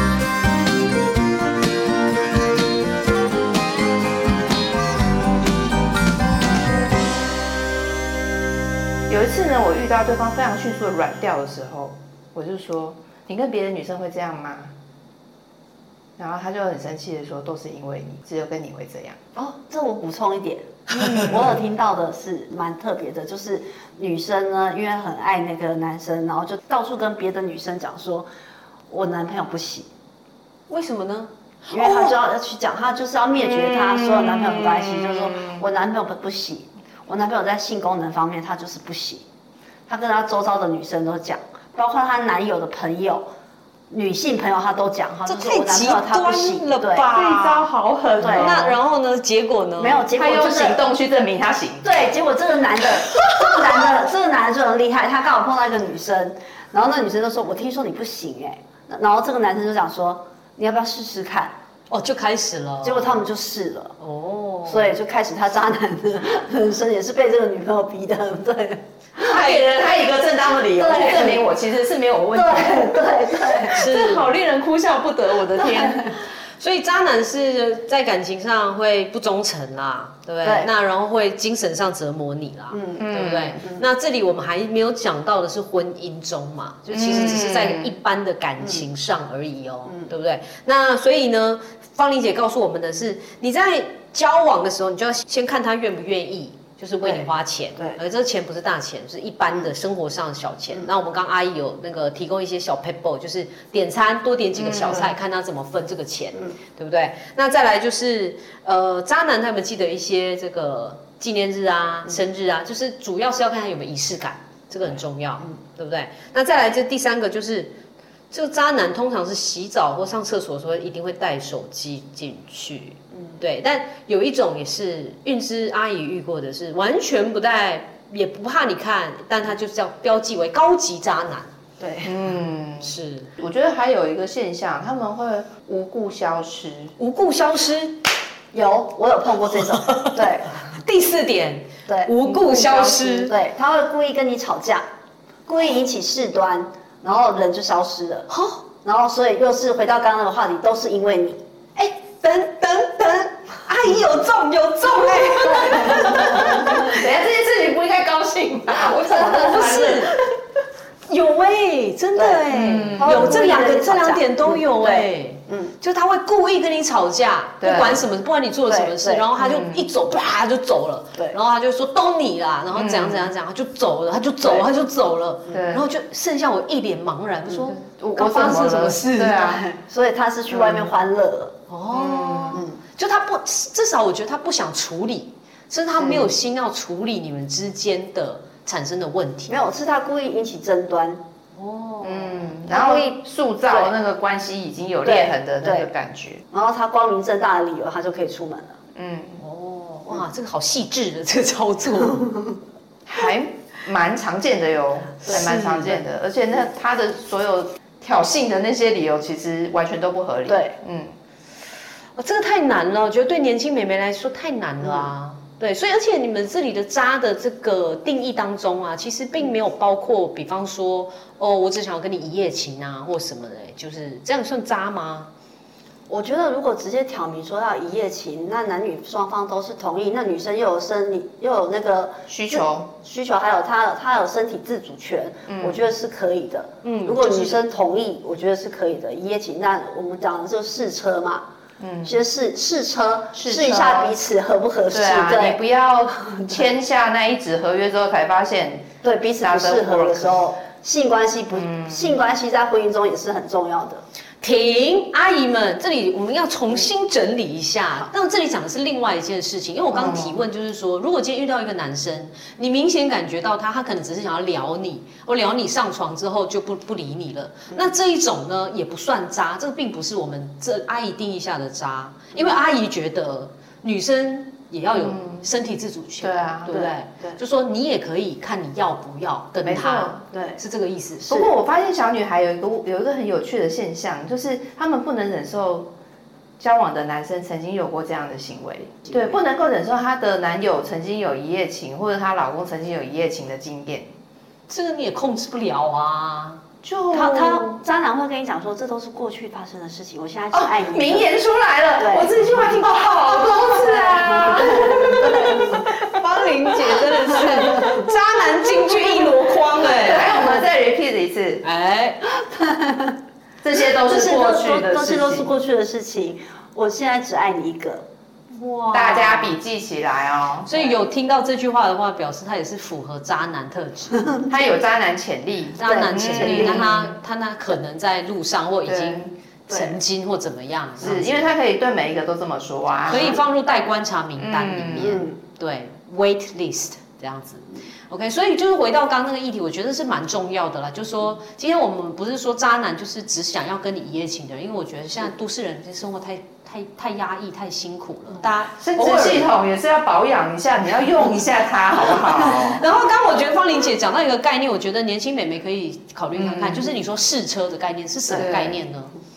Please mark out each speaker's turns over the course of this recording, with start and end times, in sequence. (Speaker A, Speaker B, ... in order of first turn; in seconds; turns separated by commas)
Speaker A: 9.1-14.7, Speaker A: 16.2-19.2, Speaker B: 19.4-28.3, Speaker B: 28.9-29.9, Speaker C: 30.7-32.2, Speaker B: 31.7-39.2, Speaker A: 33.5-35.6, Speaker B: 39.9-43.3, Speaker B: 43.9-47.1, Speaker C: 45.3-47.7, Speaker A: 47.1-48.7, Speaker B: 48.2-48.7, Speaker C: 48.2-50.1, Speaker B: 49.8-50.8, Speaker A: 50.1-52.1, Speaker B: 51.8-61.5, Speaker C: 61.9-63.2, Speaker B: 62.8-64.0, Speaker C: 64.0-64.9, Speaker B: 64.7-69.4, Speaker A: 69.2-76.2, Speaker B: 70.7-71.5, Speaker B: 72.3-73.9, Speaker C: 73.7-74.3, Speaker C: 76.6-117.8, Speaker B: 80.4-80.7, Speaker B: 82.7-83.1, Speaker A: 83.0-83.6, Speaker A: 86.9-88.0, Speaker B: 97.0-98.0, Speaker A: 104.6-105.1, Speaker C: 118.3-131.5, Speaker B: 131.8-132.1, Speaker A: 132.0-136.9, Speaker C: 132.8-133.3, Speaker C: 137.0-138.0, Speaker B: 138.5-140.6, Speaker C: 139.6-143.3, Speaker B: 141.9-144.8, Speaker A: 142.6-142.9, Speaker B: 145.5-148.3, Speaker C: 148.3-148.6, Speaker B: 148.8-151.4, Speaker C: 151.8-156.8, Speaker B: 155.3-156.9, Speaker A: 155.9-160.2, Speaker C: 159.1-160.2, Speaker B: 159.2-159.8, Speaker C: 161.1-179.5, Speaker B: 162.2-165.8, Speaker A: 162.5-163.4, Speaker A: 167.6-168.0, Speaker B: 168.7-169.3, Speaker A: 169.4-169.8, Speaker A: 172.7-173.3, Speaker A: 175.5-175.8, Speaker A: 177.8-179.7, Speaker B: 179.7-181.6, Speaker A: 180.5-180.9, Speaker C: 181.7-189.6, Speaker A: 181.9-182.6, Speaker B: 182.5-182.8, Speaker A: 186.0-186.3, Speaker B: 189.5-191.2, Speaker C: 191.6-192.5, Speaker A: 192.0-196.4, Speaker B: 192.7-193.9, Speaker B: 195.0-195.9, Speaker B: 196.5-198.8, Speaker A: 198.9-199.4, Speaker C: 199.4-202.4, Speaker B: 202.2-202.5, Speaker A: 203.1-211.1, Speaker C: 205.2-206.0, Speaker B: 205.3-205.7, Speaker B: 210.5-210.8, Speaker C: 212.2-225.3, Speaker B: 226.1-241.4, Speaker A: 232.3-232.9, Speaker A: 235.5-235.8, Speaker A: 236.8-237.6, Speaker A: 241.8-242.2, Speaker B: 242.1-245.6, Speaker A: 243.3-244.1, Speaker A: 244.9-250.4, Speaker B: 246.3-246.6, Speaker B: 249.0-254.0, Speaker A: 251.6-252.1, Speaker C: 254.4-281.3, Speaker A: 259.9-260.4, Speaker A: 275.0-275.5, Speaker A: 276.2-276.9, Speaker B: 276.7-277.4, Speaker A: 279.6-280.2, Speaker B: 280.3-280.6, Speaker A: 281.2-285.9, Speaker A: 286.6-294.1, Speaker C: 294.7-296.6, Speaker A: 296.8-297.8, Speaker B: 297.1-301.4, Speaker A: 300.5-308.0, Speaker B: 302.0-302.6, Speaker B: 303.7-305.8, Speaker C: 305.4-310.5, Speaker B: 307.6-308.0, Speaker A: 309.0-311.6, Speaker C: 311.6-312.2, Speaker B: 312.4-313.1, Speaker A: 313.6-315.5, Speaker B: 313.9-318.1, Speaker C: 318.5-319.6, Speaker A: 318.9-320.7, Speaker C: 320.6-324.3, Speaker A: 324.5-327.1, Speaker C: 325.8-331.5, Speaker B: 325.8-327.0, Speaker A: 328.9-329.3, Speaker B: 329.7-330.0, Speaker A: 331.0-333.4, Speaker C: 333.1-349.5, Speaker A: 334.4-335.2, Speaker B: 335.0-335.4, Speaker A: 348.8-352.8, Speaker C: 352.4-359.1, Speaker A: 356.4-356.9, Speaker A: 358.3-358.8